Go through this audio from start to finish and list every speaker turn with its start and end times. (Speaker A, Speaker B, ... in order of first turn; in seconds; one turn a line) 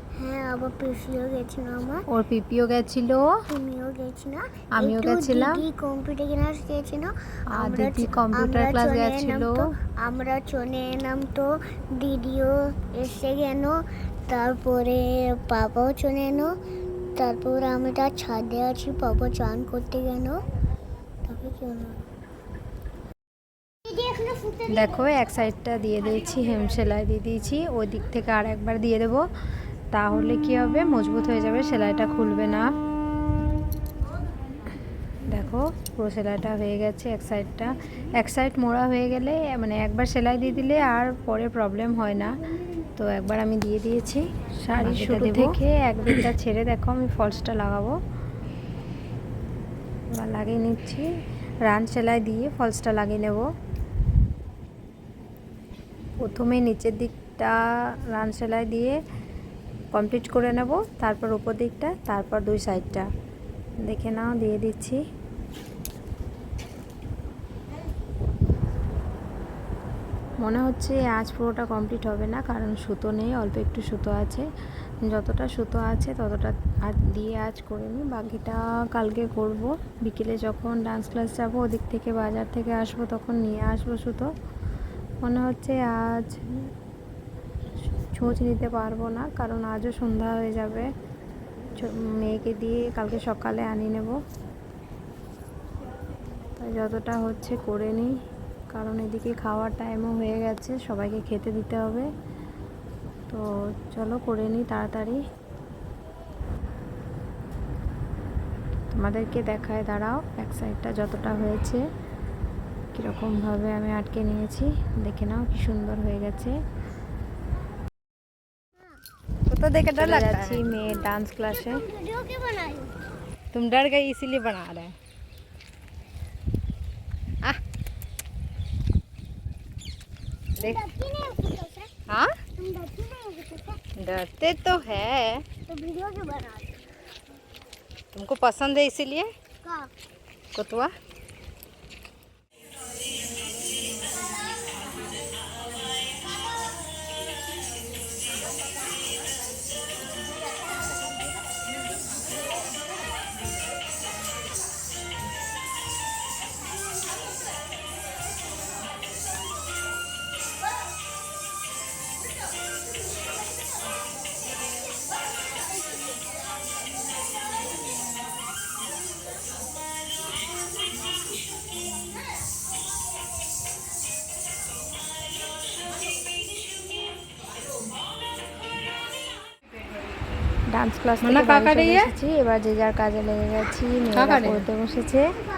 Speaker A: 0.2-2.0
Speaker B: 2.1-3.4
Speaker A: 3.5-16.5
Speaker B: 4.8-5.6
Speaker B: 7.5-9.6
Speaker A: 17.2-20.4
Speaker A: 21.2-22.1
Speaker A: 23.9-24.9
Speaker B: 24.7-29.3
Speaker B: 29.9-32.7
Speaker B: 35.2-42.4
Speaker B: 43.0-48.0
Speaker C: 44.8-45.6
Speaker B: 50.1-51.1
Speaker B: 51.7-53.5
Speaker B: 56.2-59.0
Speaker B: 59.9-63.1
Speaker B: 63.8-65.0
Speaker B: 70.4-74.5
Speaker B: 75.0-84.3
Speaker B: 85.2-86.6
Speaker B: 88.0-90.9
Speaker B: 91.7-94.2
Speaker B: 96.6-98.2
Speaker B: 98.7-102.1
Speaker B: 103.3-105.2
Speaker B: 108.9-111.8
Speaker B: 112.9-116.6
Speaker C: 119.5-120.6
Speaker B: 120.0-121.8
Speaker A: 121.5-123.0
Speaker C: 123.5-125.0
Speaker A: 130.6-131.9
Speaker C: 132.1-132.3
Speaker A: 132.6-133.8
Speaker C: 134.0-135.5
Speaker A: 135.7-136.8
Speaker C: 138.1-139.3
Speaker A: 139.6-139.9
Speaker C: 140.6-140.9
Speaker B: 180.7-185.3
Speaker C: 181.2-182.1
Speaker C: 184.1-184.7